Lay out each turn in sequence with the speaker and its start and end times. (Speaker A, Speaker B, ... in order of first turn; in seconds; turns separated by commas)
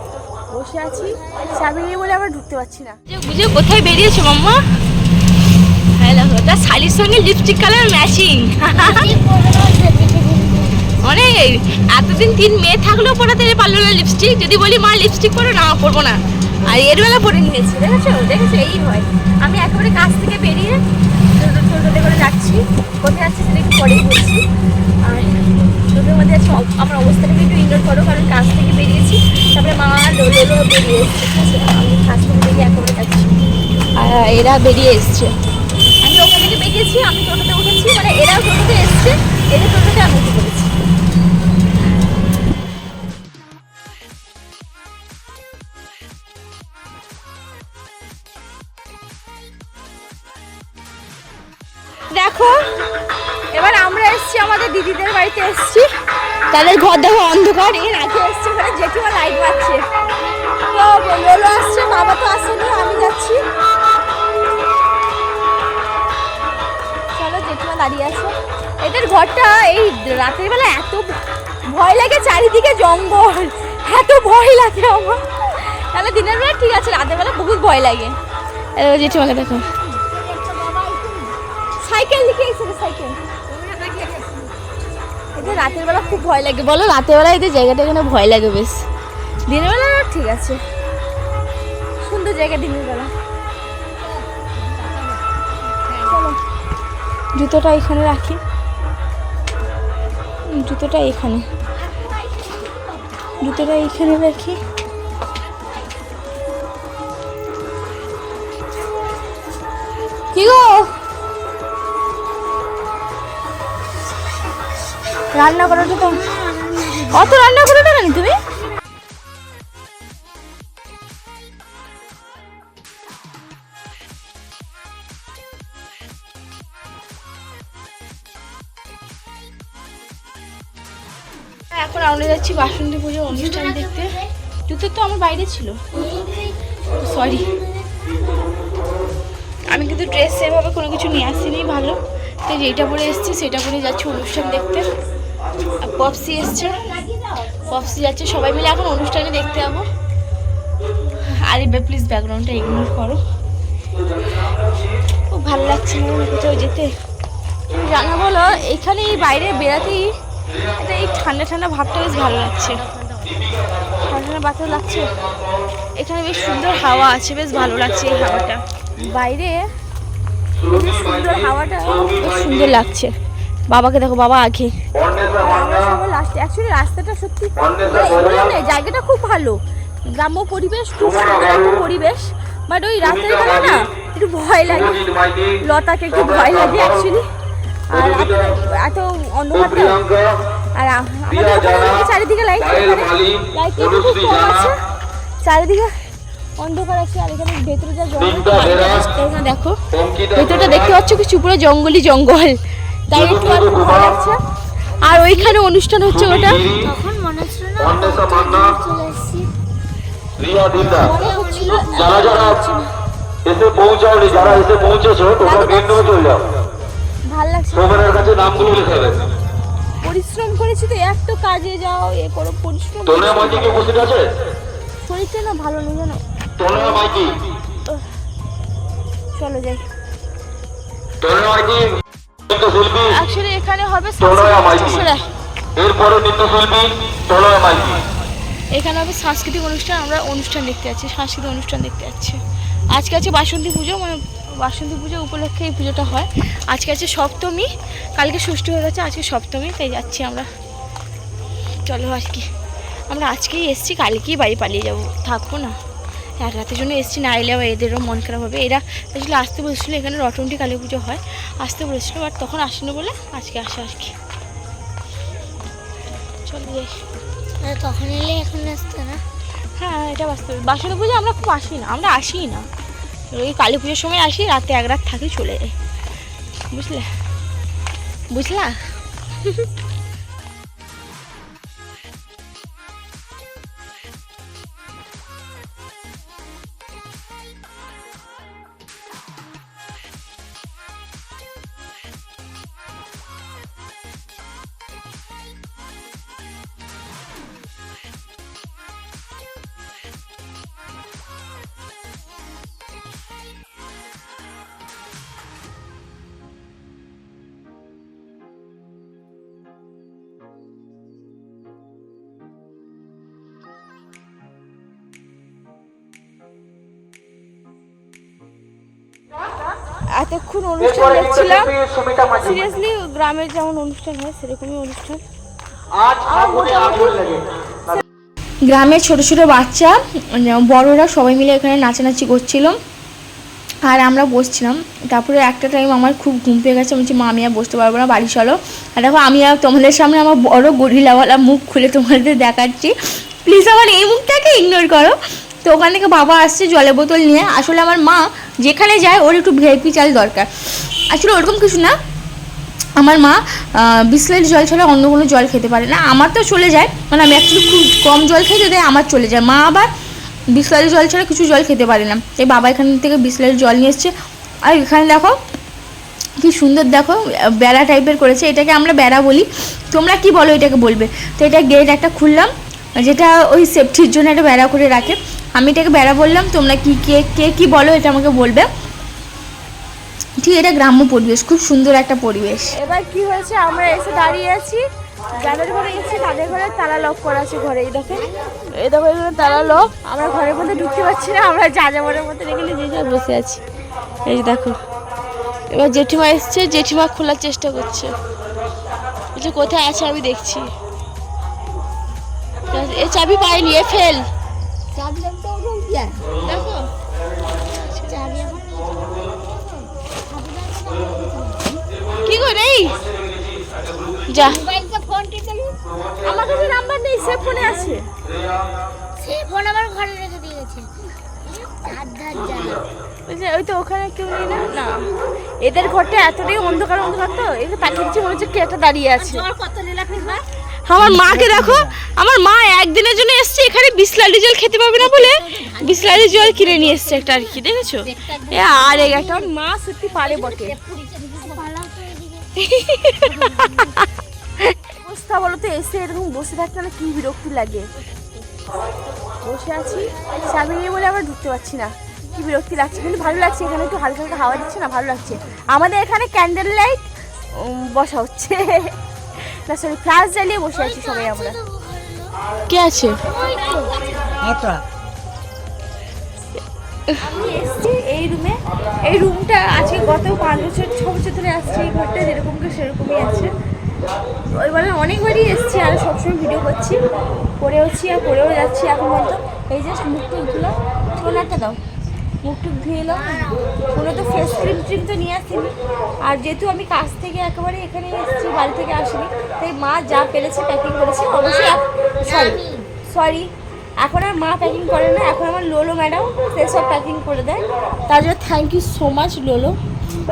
Speaker A: 0.5-4.6, Speaker A: 6.0-9.2, Speaker B: 8.8-10.9, Speaker A: 11.0-20.8, Speaker A: 21.3-24.4, Speaker A: 25.0-33.3, Speaker A: 34.0-35.3, Speaker A: 36.0-40.7, Speaker A: 52.1-52.6, Speaker A: 53.5-55.9, Speaker A: 56.5-59.8, Speaker A: 60.7-63.4, Speaker A: 67.2-78.2, Speaker A: 78.8-79.7, Speaker B: 79.2-81.3, Speaker A: 81.8-83.2, Speaker B: 83.5-84.6, Speaker A: 85.3-88.8, Speaker A: 89.5-90.6, Speaker A: 92.0-93.1, Speaker B: 94.0-96.1, Speaker A: 95.9-96.4, Speaker A: 97.3-98.4, Speaker A: 100.5-101.5, Speaker B: 101.8-103.5, Speaker A: 103.4-104.6, Speaker A: 110.3-110.9, Speaker A: 115.3-116.2, Speaker B: 115.8-117.2, Speaker A: 117.0-118.4, Speaker A: 131.7-134.2, Speaker B: 133.5-134.2, Speaker A: 134.7-135.8, Speaker B: 136.0-137.6, Speaker A: 137.0-137.5, Speaker A: 139.7-144.9, Speaker A: 145.8-146.8, Speaker A: 147.6-149.9, Speaker A: 151.4-153.2, Speaker A: 155.3-156.9, Speaker A: 157.7-160.1, Speaker A: 160.7-163.3, Speaker A: 164.0-165.1, Speaker A: 166.0-169.7, Speaker A: 170.6-173.1, Speaker A: 173.7-187.2, Speaker C: 175.0-175.3, Speaker C: 185.1-185.5, Speaker A: 187.9-190.2, Speaker A: 190.8-194.8, Speaker A: 195.4-195.9, Speaker A: 196.6-204.4, Speaker C: 198.4-198.7, Speaker C: 200.0-200.8, Speaker C: 203.5-203.8, Speaker A: 205.0-206.7, Speaker B: 205.1-205.5, Speaker C: 206.2-206.7, Speaker B: 206.6-209.5, Speaker C: 210.4-210.9, Speaker A: 210.8-212.8, Speaker B: 210.9-212.7, Speaker C: 213.4-216.3, Speaker A: 214.2-216.5, Speaker A: 217.3-219.3, Speaker C: 218.0-219.3, Speaker A: 220.0-224.3, Speaker C: 223.4-224.2, Speaker A: 225.0-227.3, Speaker C: 226.9-227.2, Speaker A: 229.3-229.8, Speaker C: 231.2-233.0, Speaker A: 233.0-235.2, Speaker C: 234.5-234.8, Speaker C: 235.8-238.0, Speaker A: 238.7-242.4, Speaker A: 242.9-250.5, Speaker A: 251.8-252.5, Speaker A: 253.1-255.8, Speaker A: 256.4-264.1, Speaker A: 266.5-266.9, Speaker B: 267.6-269.2, Speaker A: 269.8-272.7, Speaker A: 273.3-275.7, Speaker A: 276.7-277.1, Speaker A: 278.3-278.9, Speaker A: 320.1-325.2, Speaker C: 321.8-322.2, Speaker C: 326.0-326.2, Speaker A: 326.2-328.0, Speaker A: 328.7-332.8, Speaker A: 333.9-342.9, Speaker A: 343.4-352.0, Speaker A: 353.0-359.9, Speaker A: 360.5-364.1, Speaker A: 364.7-365.4, Speaker A: 366.4-378.7, Speaker A: 380.4-384.8, Speaker A: 385.4-393.6, Speaker A: 394.3-394.8, Speaker A: 395.7-398.1, Speaker A: 399.4-400.7, Speaker A: 402.7-404.2, Speaker B: 404.9-406.3, Speaker A: 406.4-406.8, Speaker A: 407.7-408.2, Speaker B: 407.9-411.8, Speaker A: 412.2-412.9, Speaker A: 414.3-414.6, Speaker B: 414.3-415.8, Speaker A: 416.2-418.0, Speaker B: 419.2-420.9, Speaker B: 421.4-422.9, Speaker A: 423.3-424.9, Speaker A: 425.6-429.5, Speaker B: 429.2-430.4, Speaker A: 430.9-440.8, Speaker B: 435.0-439.5, Speaker B: 440.1-442.5, Speaker A: 442.6-444.0, Speaker B: 443.2-444.0, Speaker A: 444.6-447.9, Speaker A: 449.4-461.6, Speaker B: 461.0-462.4, Speaker A: 462.7-463.2, Speaker B: 463.2-464.7, Speaker A: 467.1-473.5, Speaker A: 474.6-477.0, Speaker A: 477.6-481.8, Speaker A: 482.4-485.7, Speaker B: 483.1-483.9, Speaker A: 486.2-499.8, Speaker B: 492.2-492.9